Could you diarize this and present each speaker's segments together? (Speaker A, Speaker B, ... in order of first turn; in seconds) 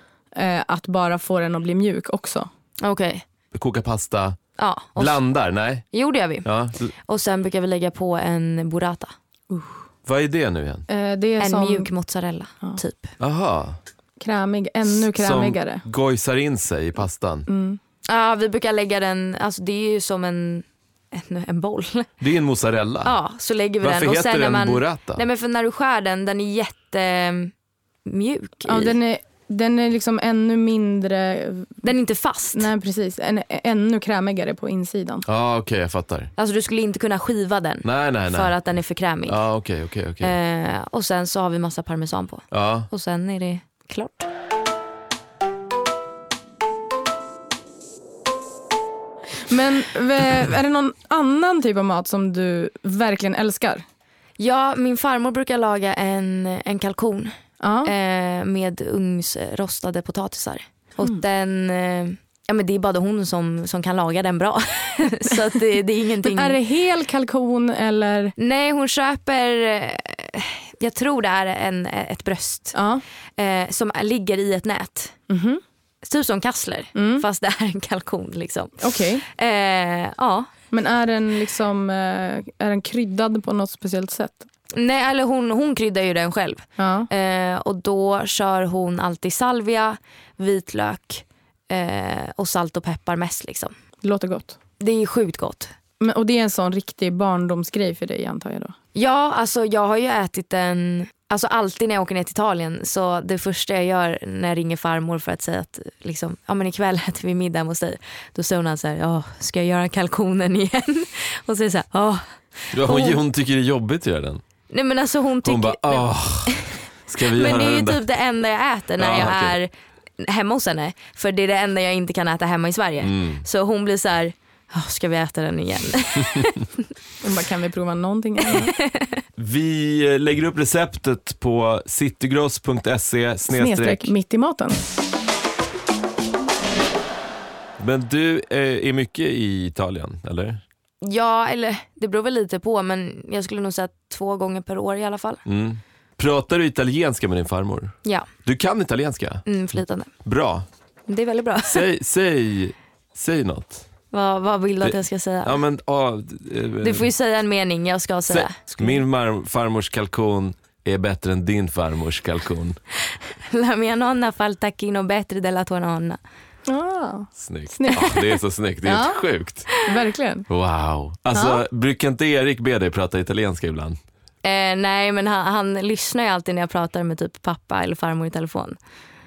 Speaker A: 0.3-2.5, 9.5-9.8, 10.9-11.9, 14.2-15.8, 17.5-17.8, 28.7-31.9, 32.5-35.2, 49.4-53.9, 57.6-57.9, 66.2-68.3, 72.7-73.0, 75.3-75.6, 77.0-77.2, 78.8-79.2, 80.7-84.5, 86.8-87.1, 94.0-94.6, 96.0-98.8, 127.2-128.7, 133.5-134.8, 166.7-168.2, 168.8-169.2, 169.8-170.5, 171.3-171.6
Speaker B: 2.8-3.2, 4.6-5.2, 5.9-6.5, 7.0-9.1, 11.4-13.1, 18.1-22.1, 23.0-27.5, 28.1-29.0, 31.8-32.7, 36.4-39.4, 40.2-44.3, 54.4-66.6, 68.4-72.8, 73.4-75.2, 76.0-80.5, 84.7-93.8, 94.8-95.7, 99.0-113.2, 114.7-126.6, 128.5-129.2, 141.0-145.4, 149.5-150.1, 151.1-151.9, 154.1-155.6, 156.8-159.0, 163.4-166.2, 174.4-178.8
Speaker C: 3.5-4.4, 5.0-5.8, 6.4-6.9, 10.1-10.9, 13.2-13.8, 14.9-17.5, 22.2-23.1, 23.8-25.2, 35.3-36.3, 37.8-38.5, 39.3-40.3, 42.5-42.9, 112.7-114.4, 115.4-118.0, 119.0-119.6, 123.0-123.4, 129.4-134.1, 137.8-140.6, 145.5-149.4, 150.2-150.7, 151.7-153.8, 154.8-157.1, 158.3-162.8, 167.4-169.7, 170.5-174.0